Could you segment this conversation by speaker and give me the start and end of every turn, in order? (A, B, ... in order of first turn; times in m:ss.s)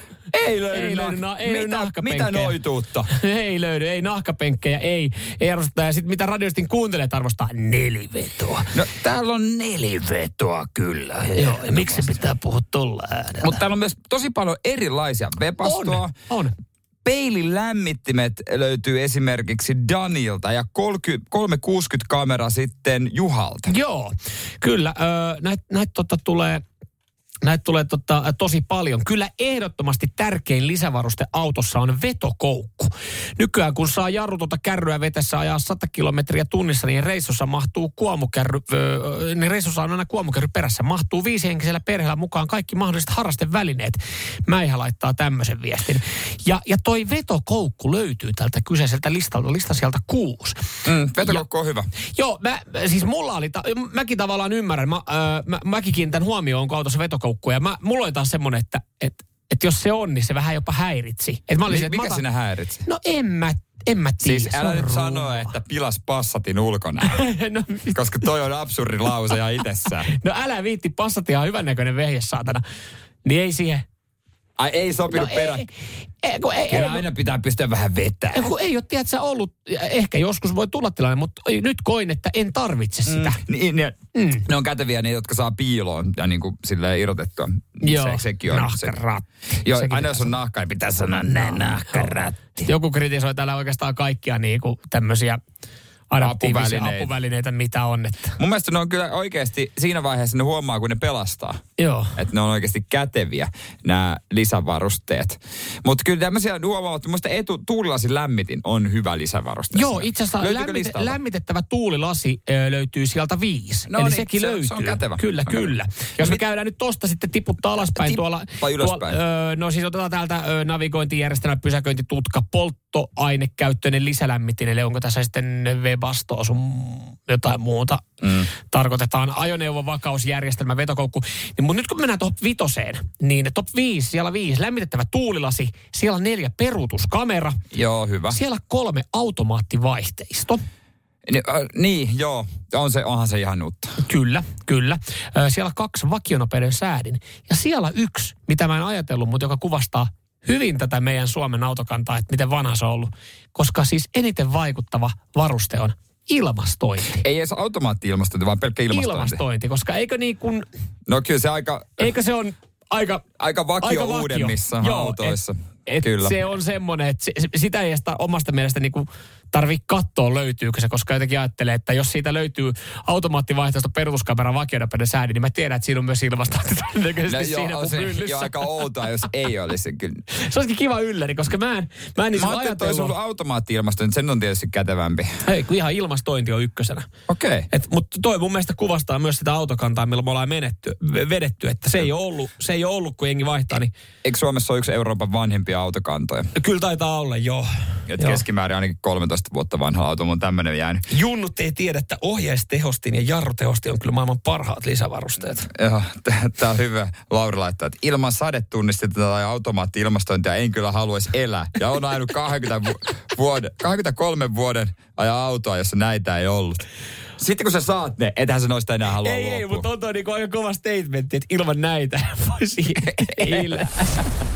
0:00.3-0:03.1 A
0:00.7-0:02.6 B
0:03.1-0:08.8 B
0:08.7-0:12.2 A
0:11.4-0:13.6 B
0:13.4-0:16.1 A
0:15.6-0:16.5 B
0:17.0-0:23.7 A
0:23.7-0:26.6 B
0:27.4-0:50.6 B
0:50.8-0:51.9 A
0:52.2-1:02.2 B
1:01.7-1:02.8 A
1:02.8-1:05.5 B
1:04.2-1:07.2 A
1:07.0-1:08.3 B
1:07.9-1:10.1 A
1:10.0-1:12.6 B
1:13.2-1:13.8 B
1:14.6-1:15.6 A
1:15.1-1:15.7 B
1:16.2-1:17.1 B
1:16.7-1:18.5 A
1:18.3-1:23.4 B
1:23.1-1:29.0 A
1:24.2-1:24.4 B
1:27.8-1:30.3 B
1:29.6-1:32.7 A
1:31.9-1:35.4 B
1:36.1-1:38.4 B
1:36.2-1:37.1 A
1:38.4-1:41.6 A
1:41.8-1:42.2 B
1:42.2-1:51.2 A
1:49.7-2:17.6 B
1:53.9-1:56.4 A
1:58.0-1:59.2 A
2:08.2-2:08.5 A
2:17.7-2:18.4 A
2:18.3-2:20.6 B
2:21.3-2:24.0 A
2:24.0-2:37.2 B
2:37.2-2:39.4 A
2:38.9-2:40.7 B
2:41.1-2:42.1 A
2:42.0-2:43.3 B
2:43.4-2:46.4 A
2:43.8-2:58.7 B
2:57.3-3:00.2 A
3:00.3-3:03.1 B
3:02.4-3:05.4 A
3:05.4-3:07.1 B
3:07.3-3:07.7 A
3:07.7-3:13.9 B
3:14.2-3:16.5 A
3:16.6-3:18.4 B
3:18.1-3:21.0 A
3:21.1-3:25.7 B
3:25.7-3:36.8 A
3:37.4-3:39.9 A
3:39.2-3:44.2 B
3:43.2-3:43.8 A